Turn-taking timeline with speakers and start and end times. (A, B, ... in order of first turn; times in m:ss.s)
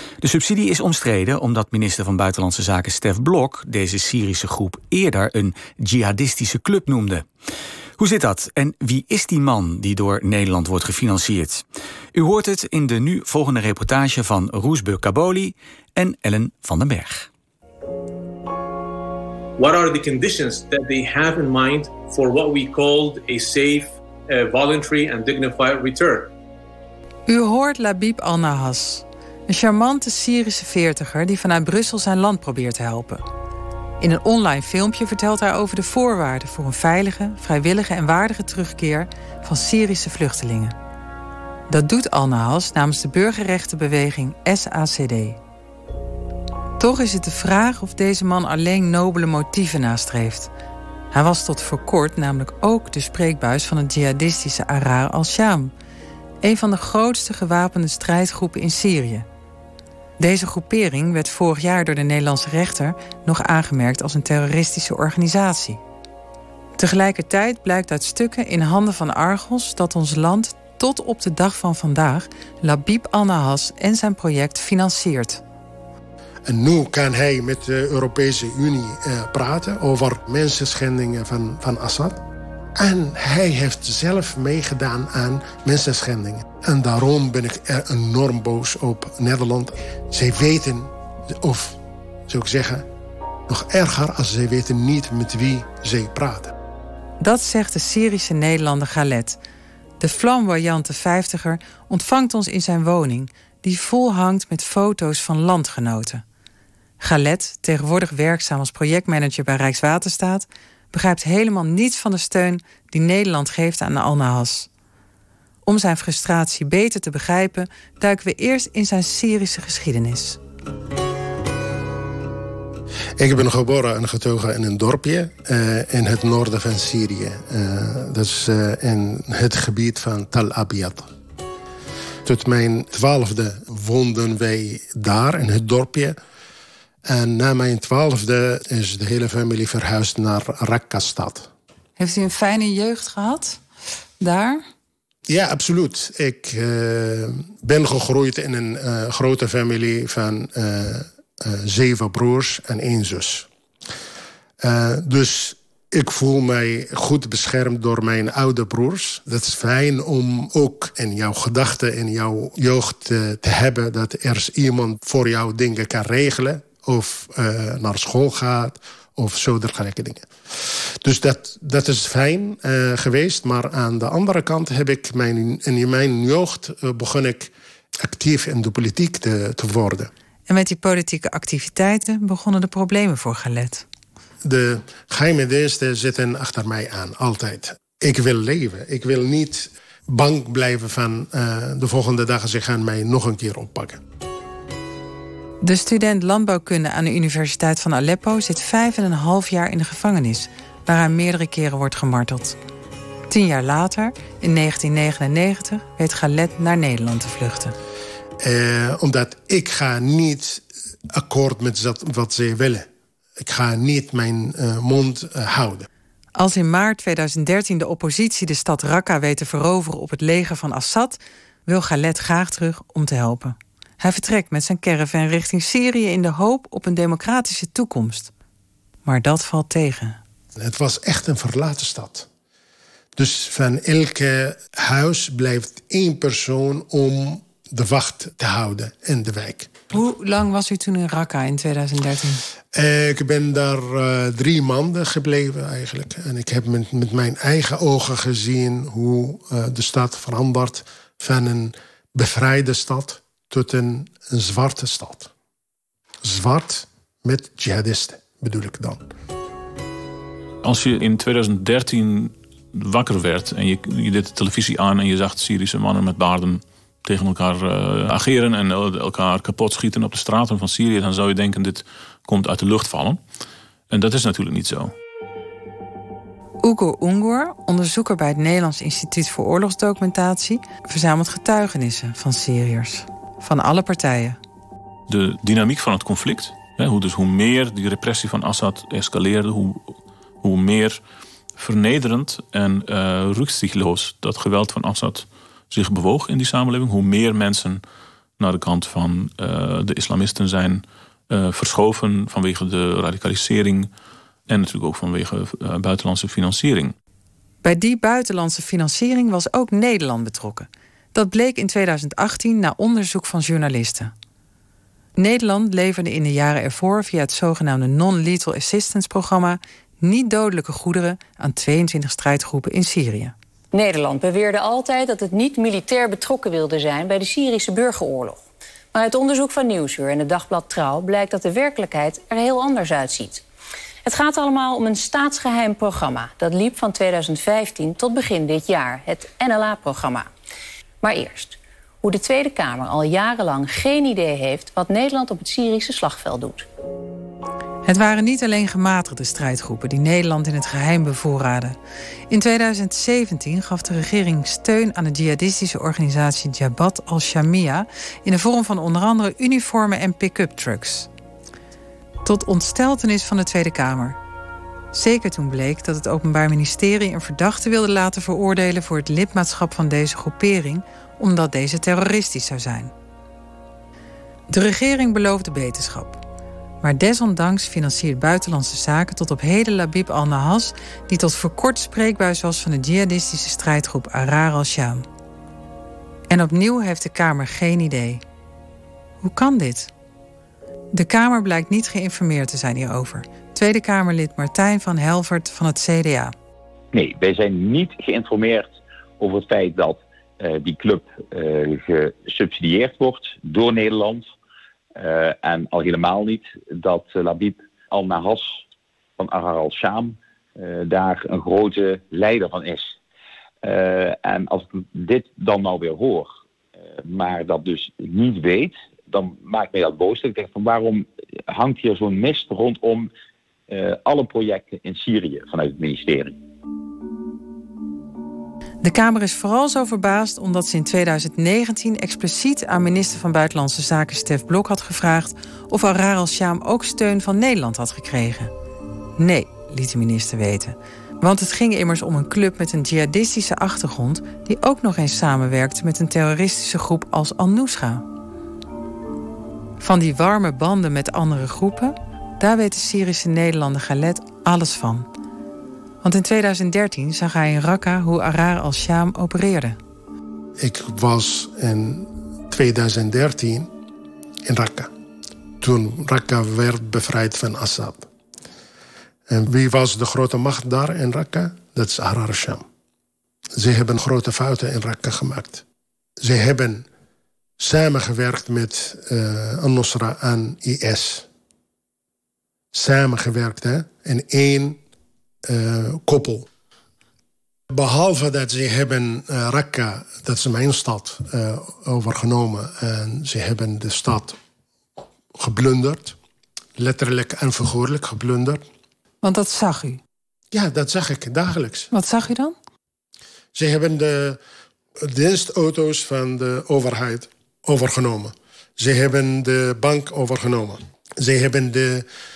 0:00.2-0:07.3 A
0:08.0-0:17.3 A
0:19.6-0:26.3 B
0:27.3-0:33.2 C
0:34.0-0:40.8 C
0:41.7-0:45.4 C
0:46.8-0:50.5 C
0:51.1-0:55.7 C
0:56.4-0:59.3 C
1:00.2-1:05.8 C
1:06.8-1:15.4 C
1:16.5-1:22.2 D
1:22.8-1:32.8 D
1:33.5-1:36.5 D
1:37.2-1:39.4 C
1:40.0-1:46.2 C
1:47.0-1:54.7 C
1:55.6-2:00.4 C
2:03.2-2:11.1 D
2:12.2-2:16.2 D
2:17.1-2:21.5 D
2:22.0-2:23.6 C
2:24.2-2:24.6 C
2:25.3-2:33.5 D
2:34.6-2:57.5 D
2:58.0-3:00.1 D
3:00.5-3:03.8 C
3:04.4-3:14.0 D
3:15.6-3:22.6 C
3:23.3-3:27.8 C
3:28.4-3:32.9 D
3:33.4-3:35.9 D
3:36.4-3:48.3 C
3:49.0-3:50.2 C
3:50.6-3:52.3 D
3:53.2-3:59.8 D
3:59.9-4:02.4 C
4:02.7-4:15.3 D
4:16.2-4:19.1 D
4:20.6-4:33.2 E
4:33.9-4:34.9 E
4:36.6-4:44.4 C
4:45.1-4:51.0 E
4:51.6-4:57.8 E
4:58.4-5:03.9 E
5:04.5-5:06.9 E
5:07.6-5:14.1 C
5:15.2-5:23.3 C
5:23.7-5:28.4 F
5:28.9-5:33.4 F
5:34.0-5:40.3 F
5:41.0-5:46.7 F
5:47.8-5:51.8 C
5:52.3-6:01.1 C
6:02.2-6:04.2 C
6:04.9-6:12.9 C
6:14.5-6:16.2 C
6:16.8-6:25.1 C
6:26.3-6:28.2 C
6:29.2-6:29.9 C
6:30.9-6:36.3 C
6:36.9-6:44.3 G
6:45.0-6:48.6 G
6:49.2-6:53.0 G
6:53.6-6:56.3 G
6:57.0-7:03.1 G
7:03.7-7:06.4 G
7:08.8-7:18.5 C
7:19.2-7:28.0 C
7:29.8-7:35.1 C
7:36.0-7:39.8 C
7:40.6-7:43.7 D
7:44.5-7:44.9 D
7:45.6-7:48.1 D
7:49.3-7:52.6 D
7:53.6-7:55.6 D
7:56.2-7:56.9 D
7:57.6-8:01.3 D
8:02.7-8:04.8 D
8:05.5-8:06.5 D
8:07.7-8:14.4 D
8:15.4-8:16.2 D
8:16.8-8:18.6 D
8:19.2-8:20.0 C
8:20.5-8:21.9 D
8:21.9-8:22.6 C
8:23.6-8:24.4 D
8:25.0-8:32.1 D